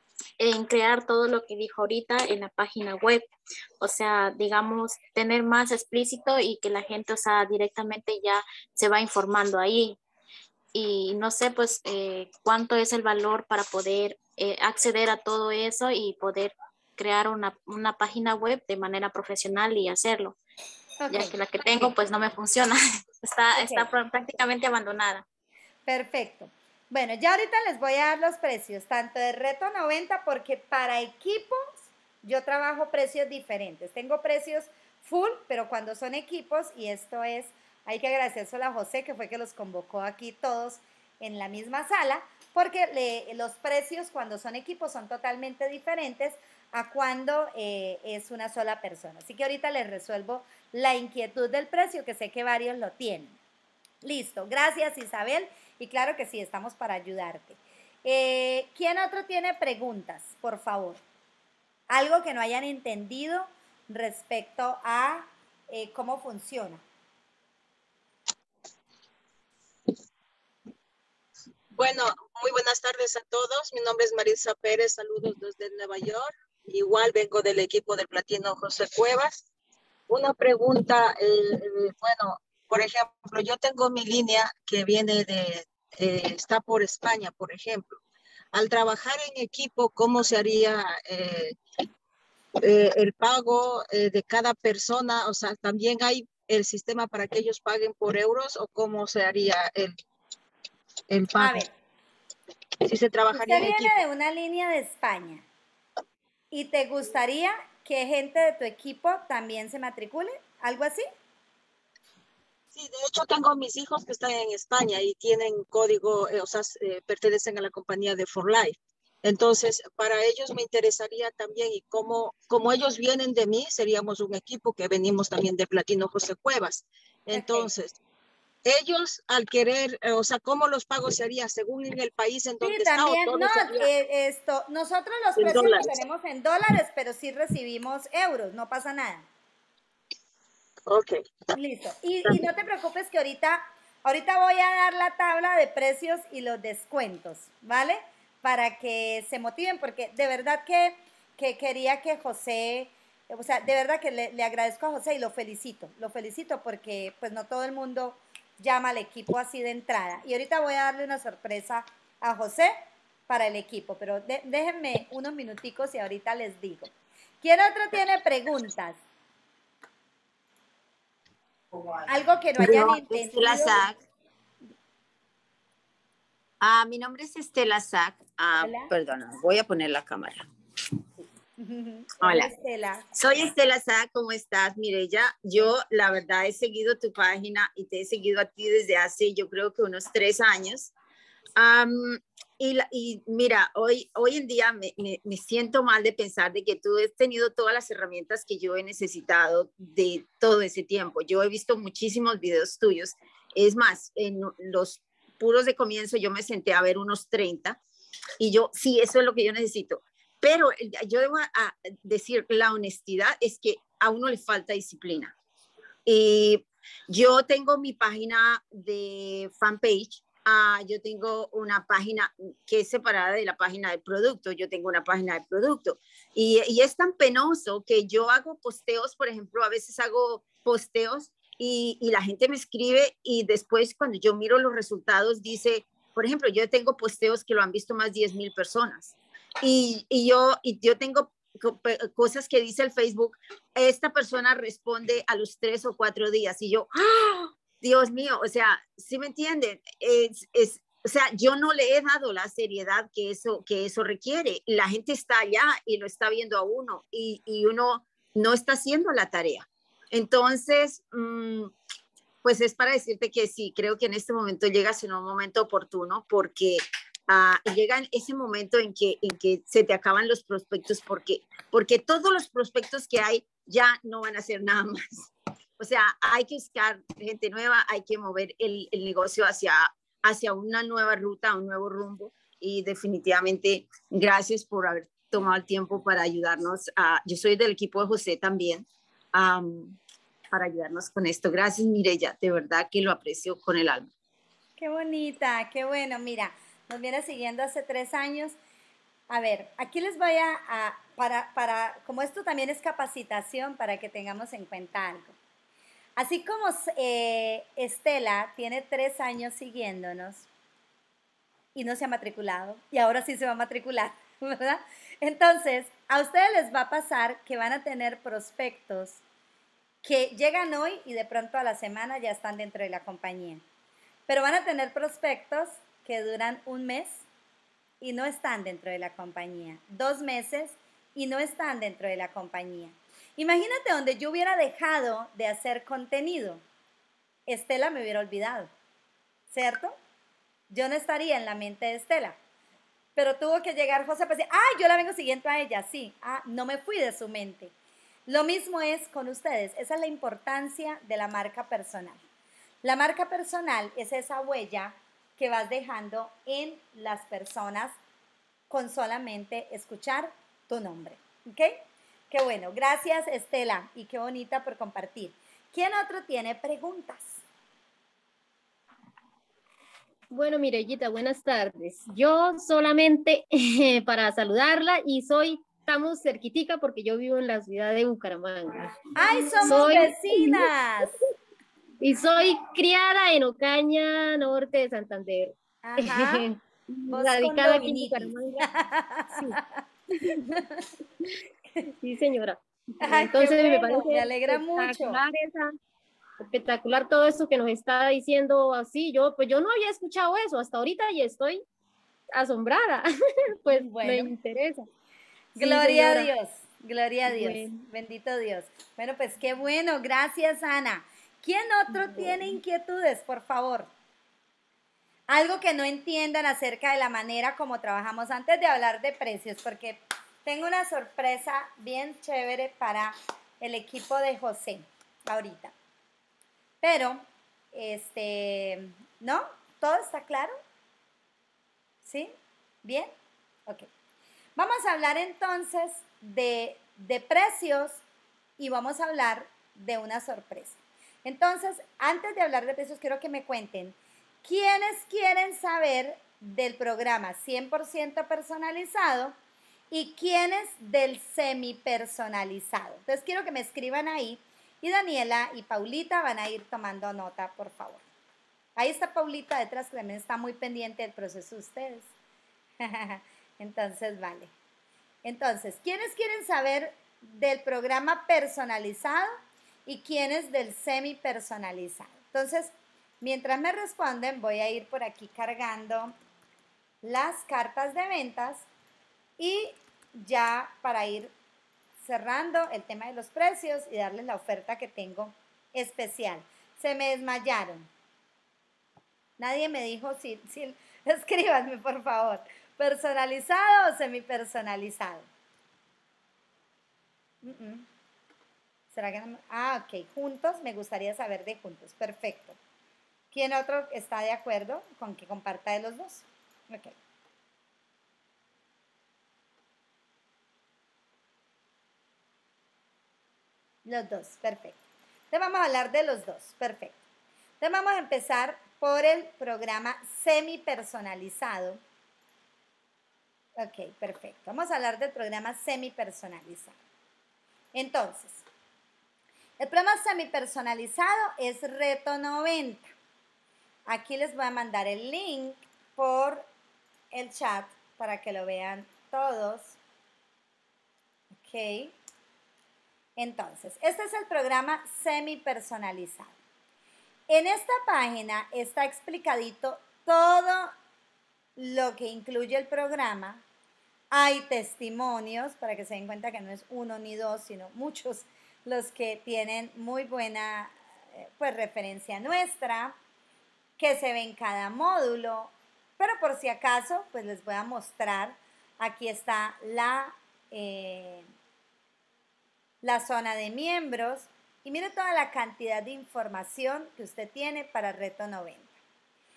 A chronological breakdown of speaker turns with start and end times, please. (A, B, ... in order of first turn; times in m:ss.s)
0:00.4-0:03.3 A
0:03.8-0:10.0 A
0:10.7-0:20.4 A
0:21.0-0:21.4 B
0:21.1-0:25.2 A
0:23.6-0:23.9 B
0:25.9-0:53.4 B
0:54.0-1:01.0 B
1:01.9-1:06.8 B
1:11.8-1:19.4 C
1:20.1-1:28.0 C
1:28.5-1:31.6 C
1:32.6-1:40.0 C
1:41.1-1:41.7 C
1:41.4-1:41.7 B
1:42.8-1:44.0 C
1:43.3-1:45.4 B
1:46.5-1:51.1 B
1:52.7-2:08.0 C
2:07.3-2:07.7 B
2:08.6-2:13.9 C
2:12.6-2:19.3 B
2:15.4-2:16.0 C
2:20.9-2:21.4 C
2:21.5-2:42.7 B
2:43.3-2:46.9 B
2:47.4-2:49.0 B
2:52.1-2:53.9 B
2:52.6-2:54.0 D
2:56.6-3:00.4 D
2:58.6-2:58.9 B
3:01.6-3:03.2 B
3:02.2-3:02.5 D
3:03.2-3:10.9 D
3:11.6-3:27.8 D
3:28.4-3:35.3 D
3:36.1-4:21.7 D
4:22.4-4:50.0 D
4:50.5-4:54.1 D
4:54.8-4:58.6 B
4:59.3-5:05.4 B
5:06.2-5:10.5 B
5:11.8-5:19.2 B
5:20.0-5:23.6 B
5:24.3-5:27.2 B
5:28.0-5:36.6 B
5:37.5-5:38.7 B
5:39.5-5:40.0 B
5:40.7-5:42.4 B
5:43.2-5:47.7 B
5:48.3-5:52.2 B
5:52.8-5:58.0 B
5:58.7-6:07.4 B
6:10.3-6:20.7 E
6:19.2-6:21.2 B
6:22.0-6:28.7 E
6:25.8-6:26.5 B
6:27.1-6:30.9 B
6:29.3-6:29.6 E
6:32.0-6:35.7 E
6:33.0-6:35.2 B
6:36.5-6:41.6 E
6:42.4-6:44.9 E
6:43.7-6:44.3 B
6:45.6-6:46.3 E
6:45.6-6:53.9 B
6:47.3-6:47.9 E
6:51.9-6:52.5 E
6:55.3-7:05.7 B
7:06.8-7:10.6 B
7:12.0-7:13.1 B
7:14.6-7:18.0 B
7:18.6-7:29.3 B
7:29.9-7:38.0 B
7:38.8-7:42.1 B
7:42.8-7:44.5 B
7:45.2-7:56.1 B
7:57.0-7:58.7 B
7:59.4-8:01.3 B
8:02.0-8:07.9 B
8:09.4-8:15.3 B
8:17.4-8:17.9 B
8:18.9-8:22.6 B
8:23.3-8:27.0 B
8:33.8-8:34.8 B
8:35.3-8:37.0 B
8:37.6-8:41.8 B
8:43.6-8:46.8 B
8:47.7-8:48.4 B
8:49.6-8:52.9 B
8:53.9-8:56.5 B
8:57.1-8:59.8 B
9:01.3-9:01.9 B
9:03.2-9:06.3 B
9:07.3-9:10.7 B
9:11.6-9:13.4 B
9:14.1-9:23.0 B
9:23.8-9:31.3 B
9:32.8-9:38.7 B